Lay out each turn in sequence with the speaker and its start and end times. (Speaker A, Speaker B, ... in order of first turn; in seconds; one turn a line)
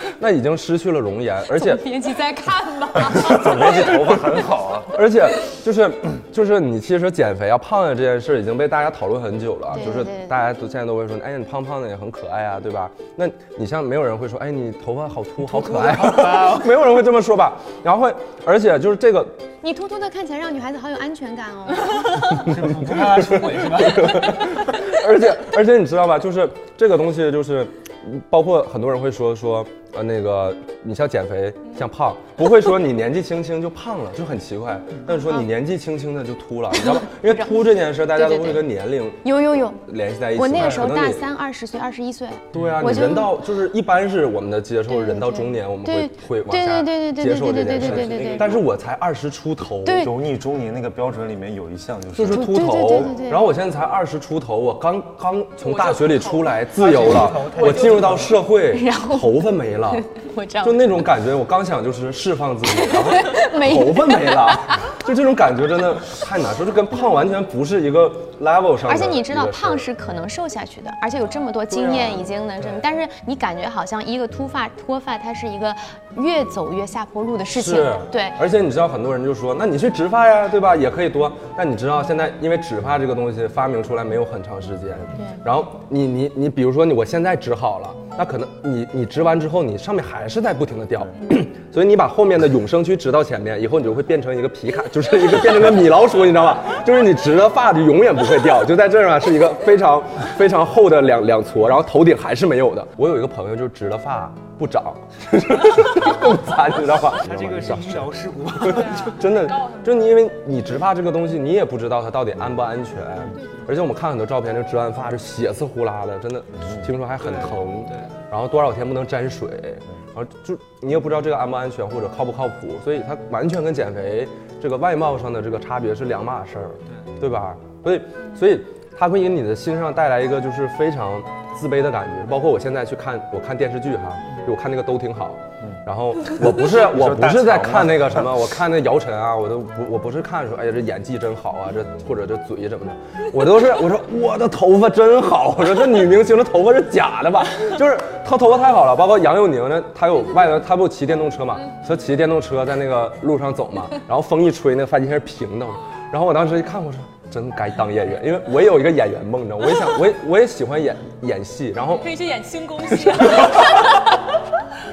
Speaker A: 0.2-1.9
Speaker B: 1.6-3.4
Speaker C: 3.0-3.5
Speaker A: 3.0-4.2
Speaker D: 3.1-5.0
Speaker A: 4.9-19.5
Speaker B: 9.7-10.4
Speaker E: 15.4-16.7
Speaker B: 19.6-22.3
Speaker E: 22.4-24.4
Speaker A: 22.9-39.2
Speaker B: 36.8-37.5
Speaker B: 38.1-38.7
Speaker B: 39.2-39.8
Speaker A: 39.8-41.3
Speaker B: 40.4-43.3
Speaker E: 42.5-43.0
Speaker A: 42.5-50.1
Speaker B: 44.9-48.5
Speaker D: 47.7-48.7
Speaker B: 49.8-50.1
Speaker D: 50.0-53.1
Speaker A: 52.1-60.1
Speaker B: 52.3-53.5
Speaker C: 55.6-58.1
Speaker E: 56.8-58.4
Speaker B: 58.7-60.9
Speaker A: 60.6-69.9
Speaker B: 62.8-64.8
Speaker B: 68.9-78.4
Speaker A: 71.7-72.3
Speaker A: 77.5-107.9
Speaker B: 85.2-85.4
Speaker E: 107.2-109.2
Speaker D: 107.2-108.1
Speaker C: 108.6-110.2
Speaker A: 108.7-162.1
Speaker D: 116.6-116.9
Speaker E: 117.2-118.1
Speaker D: 136.4-138.4
Speaker C: 162.0-164.0
Speaker A: 162.9-164.0